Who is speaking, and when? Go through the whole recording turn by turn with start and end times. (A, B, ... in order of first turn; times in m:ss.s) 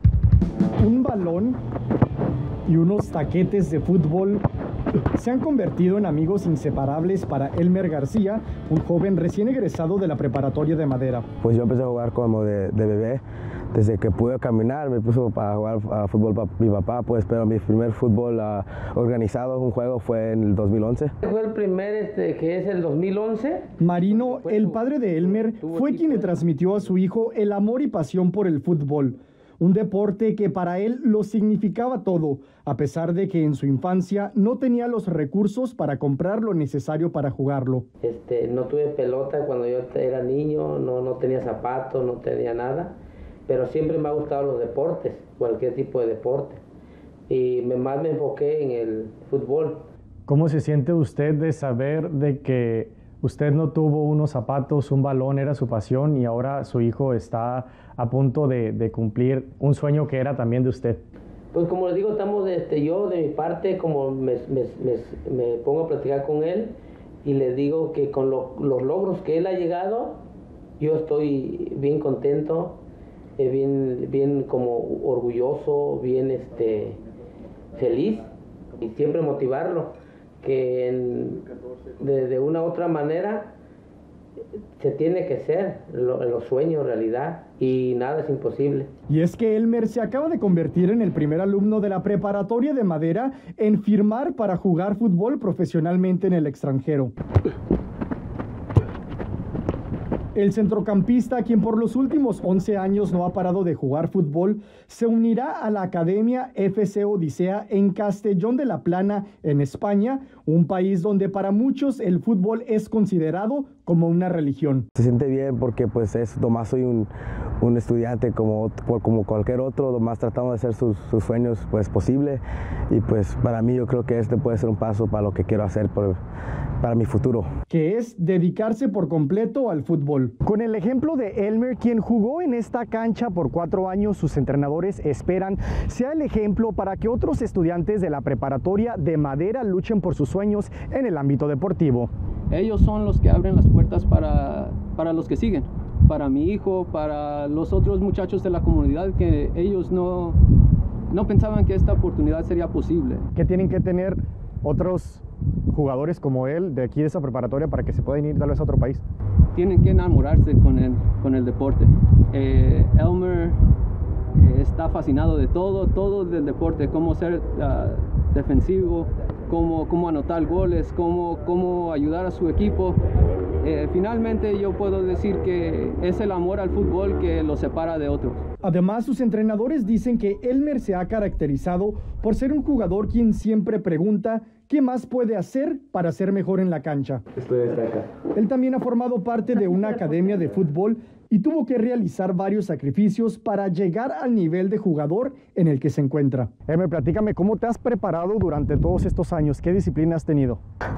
0:00.8-0:01.6 A
0:02.7-0:04.4 A
0:05.1-0:11.2 A
0:11.4-0:13.2 B
0:13.7-0:21.1 B
0:21.2-0:26.9 C
0:23.8-0:37.8 A
0:38.0-0:43.0 C
0:43.5-0:46.6 C
0:47.3-0:49.8 C
0:50.3-1:01.0 A
1:01.5-1:10.2 C
1:10.8-1:12.8 C
1:13.4-1:17.0 C
1:17.7-1:23.5 C
1:24.8-1:28.9 C
1:29.1-1:37.1 A
1:40.3-1:54.9 A
1:55.0-2:06.2 B
2:06.8-2:07.5 B
2:07.7-2:22.1 A
2:22.5-2:30.4 D
2:31.1-2:33.2 D
2:33.3-2:39.0 A
2:39.5-2:43.6 D
2:44.4-2:53.0 D
2:53.6-2:58.4 D
2:58.6-3:07.2 A
3:07.4-3:08.0 B
3:08.3-3:20.6 A